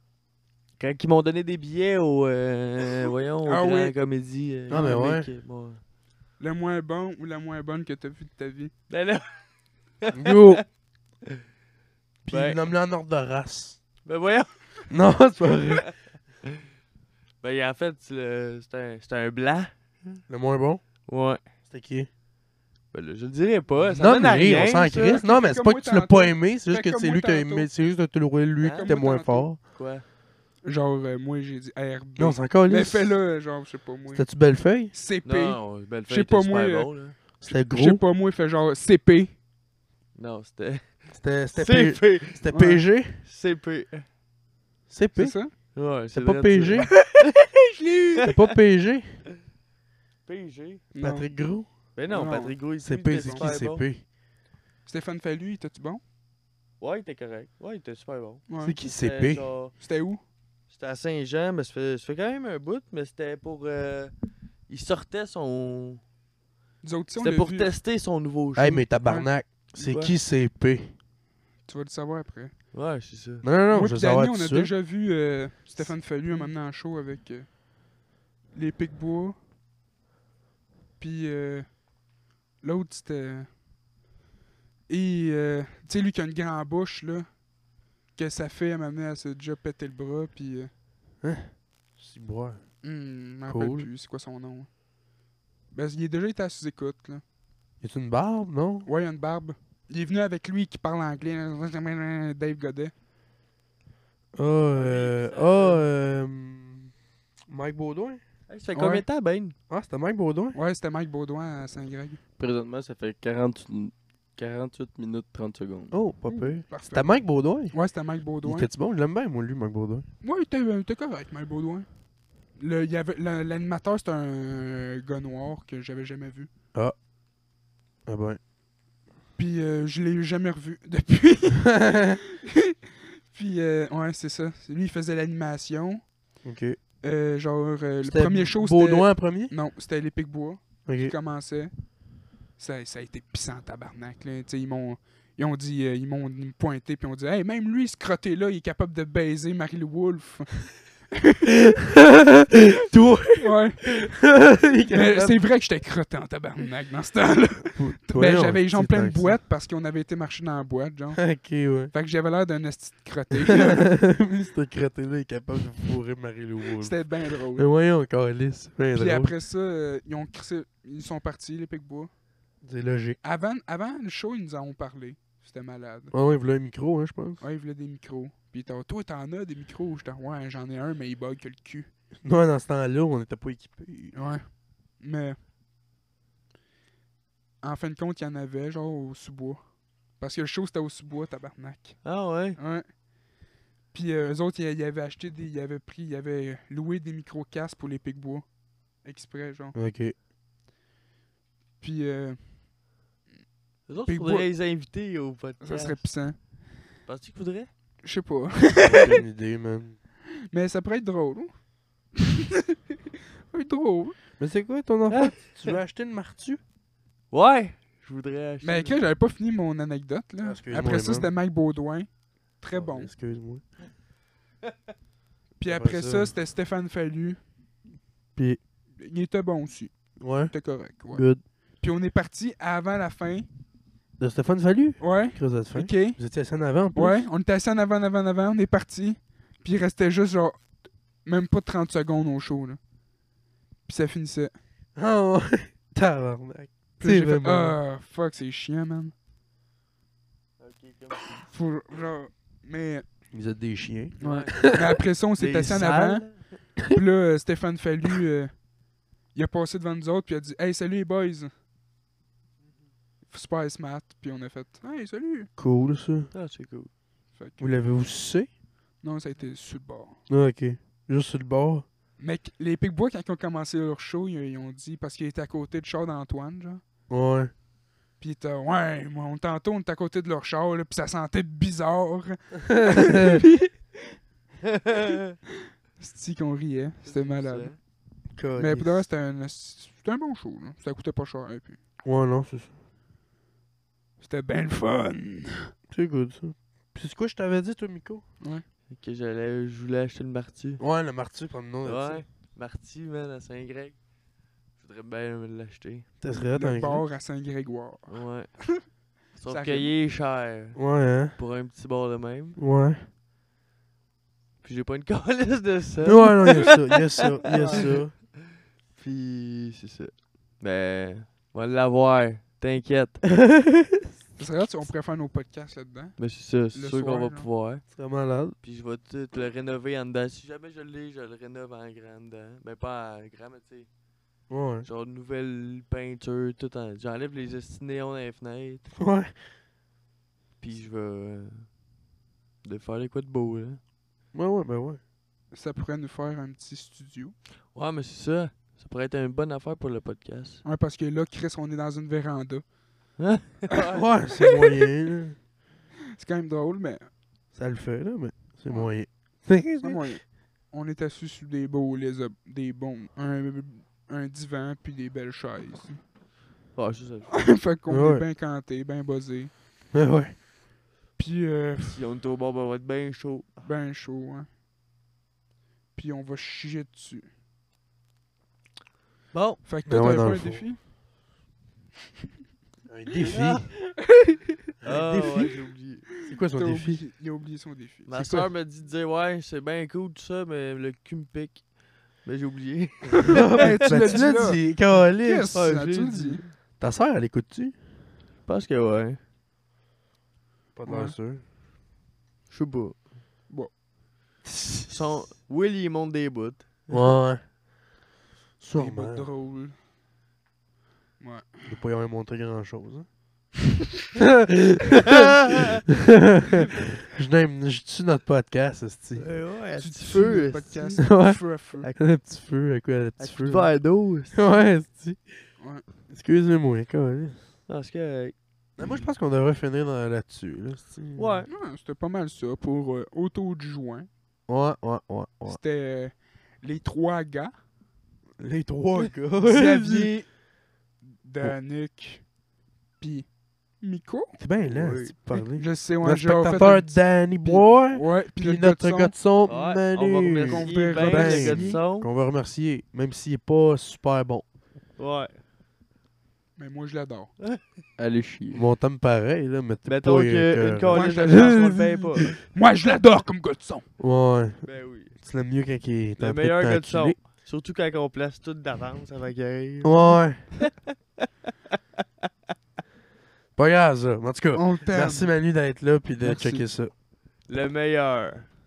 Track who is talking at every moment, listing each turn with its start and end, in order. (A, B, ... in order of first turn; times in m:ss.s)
0:00.8-0:05.8 A
0:03.4-0:03.9 B
0:04.7-0:05.3 C
0:06.4-0:08.7 B
0:08.9-0:09.4 A
0:10.0-0:10.6 A
0:10.1-0:10.6 C
0:12.2-0:13.8 C
0:12.3-0:12.6 A
0:14.0-0:14.5 A
0:14.9-0:15.9 C
0:17.4-0:20.2 A
0:20.3-0:20.8 C
0:21.1-0:21.4 A
0:21.6-0:22.1 C
0:22.9-0:25.2 A
0:23.8-0:29.6 C
0:25.0-0:27.7 B
0:28.6-0:28.9 A
0:28.7-0:29.5 B
0:29.7-0:30.0 A
0:30.6-0:34.3 B
0:32.2-0:33.2 C
0:34.1-0:34.9 C
0:34.9-0:39.3 B
0:35.2-0:37.2 A
0:37.4-0:38.0 C
0:40.2-0:42.4 A
0:41.1-0:43.2 C
0:42.5-0:42.8 B
0:43.2-0:44.0 A
0:44.9-0:45.4 C
0:45.2-0:45.5 B
0:45.7-0:47.3 A
0:46.1-0:46.9 C
0:47.5-0:48.3 B
0:48.2-0:49.1 C
0:50.2-0:50.8 A
0:50.9-0:51.3 B
0:51.0-0:51.7 C
0:51.9-0:53.8 A
0:52.1-0:53.6 B
0:52.8-0:54.0 C
0:54.8-0:56.0 B
0:56.8-0:58.4 A
0:58.5-0:58.8 B
0:58.6-0:59.5 C
0:59.0-0:59.7 A
0:59.8-1:00.2 B
1:00.7-1:04.1 A
1:04.7-1:06.0 A
1:06.8-1:07.7 B
1:07.2-1:09.2 A
1:08.6-1:10.9 C
1:09.7-1:10.1 A
1:11.6-1:12.6 B
1:12.7-1:13.4 A
1:13.4-1:14.7 C
1:13.7-1:17.5 B
1:18.5-1:19.4 B
1:21.0-1:21.8 B
1:22.6-1:23.5 B
1:24.9-1:27.4 B
1:28.1-1:30.7 B
1:31.2-1:32.6 C
1:32.8-1:34.7 B
1:33.5-1:33.9 C
1:35.7-1:37.2 B
1:37.8-1:38.9 C
1:38.8-1:42.9 B
1:44.3-1:46.9 C
1:44.7-1:45.8 A
1:47.5-1:48.2 C
1:48.5-1:49.5 A
1:48.7-1:49.0 B
1:49.7-1:50.6 C
1:50.5-1:52.2 B
1:52.4-1:55.9 D
1:55.9-1:57.8 C
1:56.3-1:58.7 B
1:58.4-2:00.0 C
2:00.2-2:01.9 B
2:02.5-2:06.5 B
2:08.0-2:08.4 C
2:09.4-2:12.7 B
2:11.6-2:12.2 C
2:13.3-2:16.2 B
2:16.4-2:16.8 C
2:17.0-2:21.7 B
2:18.0-2:19.5 C
2:20.8-2:21.1 C
2:22.6-2:31.6 B
2:31.5-2:35.4 C
2:33.4-2:34.0 B
2:34.9-2:41.4 B
2:37.7-2:39.4 C
2:41.2-2:41.9 C
2:41.9-2:43.9 B
2:43.5-2:47.0 C
2:46.8-2:47.7 B
2:47.5-2:49.3 C
2:48.9-2:52.1 B
2:52.6-2:53.2 C
2:53.2-2:56.1 B
2:56.1-2:57.4 C
2:57.4-3:01.9 B
3:02.2-3:04.1 C
3:04.1-3:05.4 B
3:07.6-3:12.8 B
3:12.0-3:12.6 A
3:13.9-3:18.4 B
3:19.0-3:19.8 B
3:19.7-3:20.1 C
3:21.8-3:22.7 B
3:23.9-3:26.0 A
3:24.1-3:24.5 B
3:25.6-3:26.5 B
3:27.0-3:27.7 A
3:28.0-3:29.2 B
3:28.8-3:30.0 C
3:30.5-3:31.6 B
3:32.2-3:32.7 B
3:33.5-3:34.2 B
3:34.4-3:36.6 C
3:35.1-3:35.7 A
3:37.3-3:39.0 A
3:38.6-3:43.1 B
3:40.4-3:41.3 C
3:42.7-3:43.6 C
3:45.6-3:47.4 B
3:45.6-3:46.3 C
3:49.0-3:51.3 B
3:50.2-3:50.5 C
3:51.1-3:51.4 C
3:51.8-3:53.4 B
3:54.2-3:57.2 C
3:55.0-3:56.2 B
3:56.9-4:00.6 B
4:01.2-4:02.8 B
4:03.8-4:04.5 B
4:05.0-4:07.8 C
4:07.0-4:09.1 B
4:10.6-4:11.4 A
4:11.5-4:13.0 B
4:13.3-4:15.0 C
4:14.2-4:14.8 A
4:14.2-4:18.6 B
4:15.4-4:16.5 A
4:19.3-4:21.5 B
4:23.3-4:25.5 B
4:25.6-4:26.3 C
4:26.3-4:26.9 A
4:27.3-4:27.7 B
4:27.6-4:28.5 C
4:29.0-4:30.2 B
4:30.3-4:31.8 C
4:32.2-4:36.8 B
4:37.1-4:37.5 C
4:38.2-4:43.7 B
4:42.7-4:43.4 C
4:44.9-4:45.2 A
4:46.0-4:47.8 B
4:47.0-4:47.8 A
4:48.3-4:49.0 C
4:48.6-4:51.8 B
4:52.0-4:52.7 C
4:54.2-4:55.7 B
4:55.9-4:58.2 C
4:58.9-5:00.8 A
5:00.8-5:02.2 C
5:01.8-5:04.0 A
5:04.8-5:06.1 A
5:06.2-5:07.0 C
5:06.5-5:08.2 B
5:08.1-5:08.6 A
5:09.3-5:10.8 A
5:09.4-5:09.9 B
5:10.8-5:11.3 C
5:11.3-5:12.6 A
5:12.6-5:13.0 C
5:14.6-5:23.2 A
5:16.0-5:18.1 C
5:23.5-5:24.0 C
5:24.4-5:27.5 B
5:26.2-5:27.8 A
5:27.9-5:28.6 C
5:28.6-5:33.9 A
5:34.5-5:34.9 C
5:34.8-5:38.9 A
5:38.9-5:39.3 C
5:40.6-5:41.7 A
5:42.6-5:43.8 A
5:44.3-5:45.0 C
5:45.5-5:47.4 B
5:47.7-5:50.6 A
5:50.6-5:52.6 B
5:53.2-5:54.0 A
5:53.9-5:55.4 C
5:56.2-5:57.1 B
5:57.5-6:00.0 C
5:59.8-6:06.0 B
6:06.7-6:07.3 A
6:07.3-6:09.5 B
6:07.9-6:08.2 C
6:09.9-6:10.4 C
6:11.2-6:12.0 B
6:11.8-6:13.5 A
6:13.6-6:14.5 B
6:15.9-6:17.3 B
6:19.3-6:19.6 A
6:19.6-6:20.8 B
6:19.8-6:20.7 C
6:22.9-6:23.8 C
6:23.3-6:23.6 A
6:24.1-6:24.4 B
6:24.8-6:26.1 A
6:24.8-6:25.4 C
6:26.2-6:27.0 C
6:26.3-6:28.5 B
6:28.1-6:33.8 A
6:33.3-6:35.6 C
6:33.3-6:36.4 B
6:35.5-6:36.5 A
6:36.8-6:37.8 C
6:38.4-6:39.2 A
6:40.8-6:41.4 C
6:40.8-6:41.1 B
6:42.5-6:43.0 A
6:44.5-6:44.9 C
6:44.9-6:46.8 A
6:46.9-6:47.4 C
6:48.6-6:49.2 C
6:48.7-6:49.8 B
6:51.2-6:51.7 B
6:51.6-6:53.1 C
6:54.1-6:55.3 C
6:55.9-6:59.3 C
6:59.2-7:01.0 A
6:59.8-7:01.9 B
7:01.0-7:01.4 C
7:02.0-7:05.3 C
7:03.2-7:04.4 A
7:05.6-7:05.8 B
7:06.1-7:07.4 C
7:07.7-7:08.3 A
7:08.8-7:11.4 C
7:08.8-7:09.1 B
7:11.2-7:11.5 A
7:11.5-7:14.1 B
7:14.5-7:15.6 C
7:15.5-7:17.5 B
7:18.4-7:20.1 C
7:19.4-7:20.4 B
7:21.2-7:22.2 B
7:23.0-7:24.4 B
7:24.4-7:34.4 C
7:24.6-7:25.1 A
7:25.5-7:29.1 B
7:29.4-7:32.1 A
7:30.5-7:31.8 B
7:35.0-7:35.4 A
7:36.6-7:37.3 B
7:37.4-7:37.6 A
7:38.0-7:38.6 D
7:38.5-7:41.6 C
7:39.8-7:42.4 A
7:40.9-7:43.8 B
7:44.0-7:47.2 C
7:44.6-7:45.2 A
7:46.2-7:50.3 A
7:49.8-7:50.5 C
7:53.6-7:56.9 C
7:54.5-7:55.3 B
7:56.2-7:56.6 B
7:57.5-7:58.5 A